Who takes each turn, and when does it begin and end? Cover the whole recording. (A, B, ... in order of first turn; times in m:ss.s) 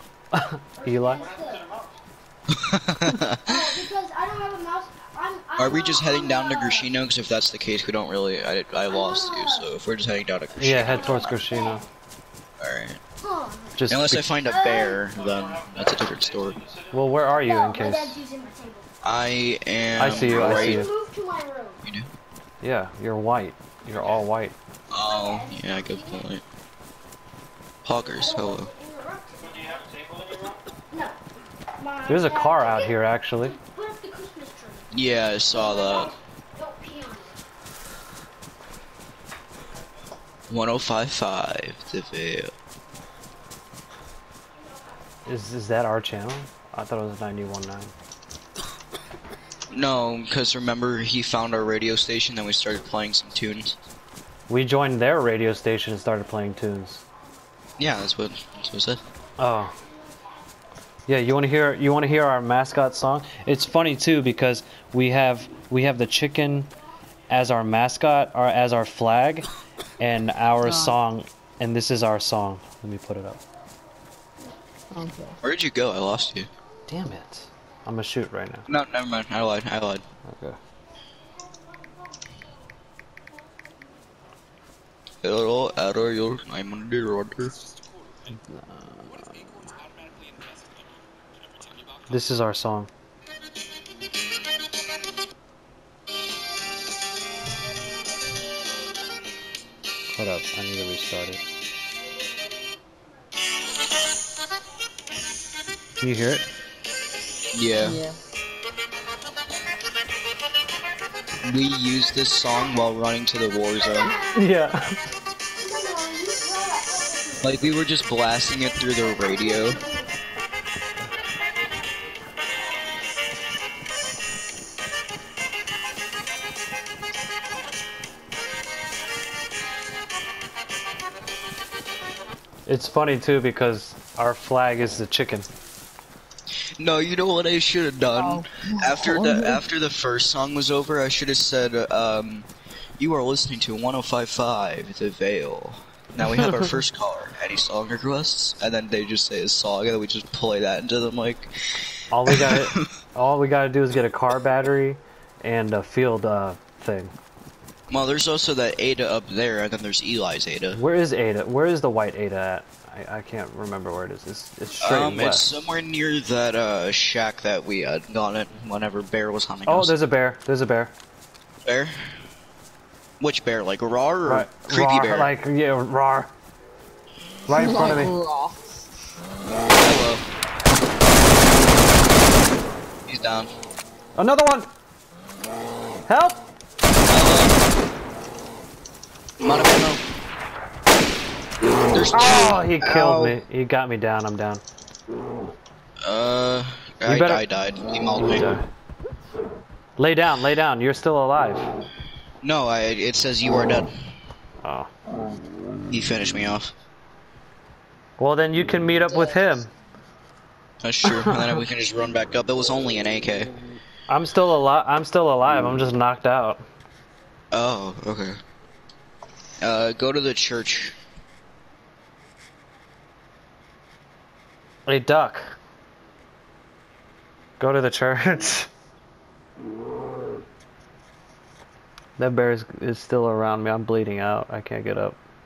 0:00.3-0:01.3 A
0:00.7-0:01.7 B
0:01.0-0:02.0 C
0:02.5-0:03.6 D
0:03.4-0:06.9 B
0:05.6-0:11.4 D
0:08.7-0:09.7 B
0:10.5-0:11.8 A
0:10.7-0:11.9 B
0:12.6-0:13.0 D
0:13.2-0:13.8 B
0:13.8-0:14.3 A
0:13.9-0:16.6 D
0:14.4-0:15.0 B
0:15.0-0:17.5 C
0:16.9-0:18.2 A
0:17.3-0:19.2 B
0:19.0-0:20.9 D
0:19.9-0:21.8 B
0:20.0-0:20.9 A
0:21.8-0:22.1 D
0:22.6-0:24.5 A
0:24.9-0:26.4 D
0:25.0-0:26.3 B
0:27.8-0:28.7 D
0:28.0-0:29.9 B
0:29.4-0:30.8 C
0:30.9-0:31.2 B
0:31.8-0:34.9 B
0:32.1-0:33.6 A
0:34.9-0:36.1 D
0:35.5-0:37.4 B
0:40.5-0:42.5 D
0:44.6-0:45.2 B
0:45.2-0:47.9 A
0:49.7-0:53.8 D
0:54.5-0:57.0 A
0:57.8-0:59.0 D
0:59.4-0:59.8 A
0:59.5-1:00.4 B
1:01.1-1:06.7 A
1:07.3-1:09.5 A
1:10.0-1:13.4 A
1:10.6-1:11.0 E
1:14.9-1:15.4 E
1:15.4-1:16.5 D
1:16.9-1:18.7 A
1:18.7-1:20.0 D
1:20.3-1:20.6 A
1:21.5-1:22.3 B
1:25.2-1:27.6 D
1:28.3-1:29.7 A
1:32.1-1:32.9 A
1:40.1-1:41.4 A
1:46.0-1:46.4 A
1:47.5-1:48.0 D
1:47.8-1:48.2 E
1:51.4-1:54.2 D
1:53.9-1:54.5 B
1:54.2-1:55.0 A
1:55.6-1:57.7 B
1:57.4-1:59.8 D
1:59.2-2:00.2 B
2:12.7-2:15.5 A
2:16.8-2:22.5 D
2:18.1-2:19.6 E
2:23.0-2:32.9 D
2:32.1-2:37.1 A
2:37.9-2:40.8 D
2:40.7-2:45.5 A
2:44.8-2:50.0 D
2:49.6-2:50.9 A
2:51.6-2:52.2 D
2:53.2-2:55.3 D
2:54.2-2:56.3 A
2:57.5-2:58.1 A
2:57.5-2:58.8 E
2:59.5-3:00.2 D
3:03.1-3:03.5 D
3:04.2-3:04.7 A
3:06.1-3:06.4 A
3:07.1-3:07.6 D
3:09.4-3:10.0 D
3:11.9-3:13.3 D
3:12.1-3:14.6 A
3:16.0-3:18.6 D
3:17.0-3:17.4 A
3:18.2-3:18.6 A
3:20.0-3:21.7 A
3:22.4-3:23.9 D
3:24.6-3:24.9 A
3:25.9-3:26.7 D
3:28.2-3:29.7 A
3:29.1-3:29.4 E
3:30.8-3:33.5 D
3:31.0-3:31.6 A
3:34.1-3:36.6 A
3:37.5-3:38.4 D
3:39.6-3:41.0 D
3:44.8-3:45.5 A
3:47.6-3:48.7 A
3:52.2-3:55.2 A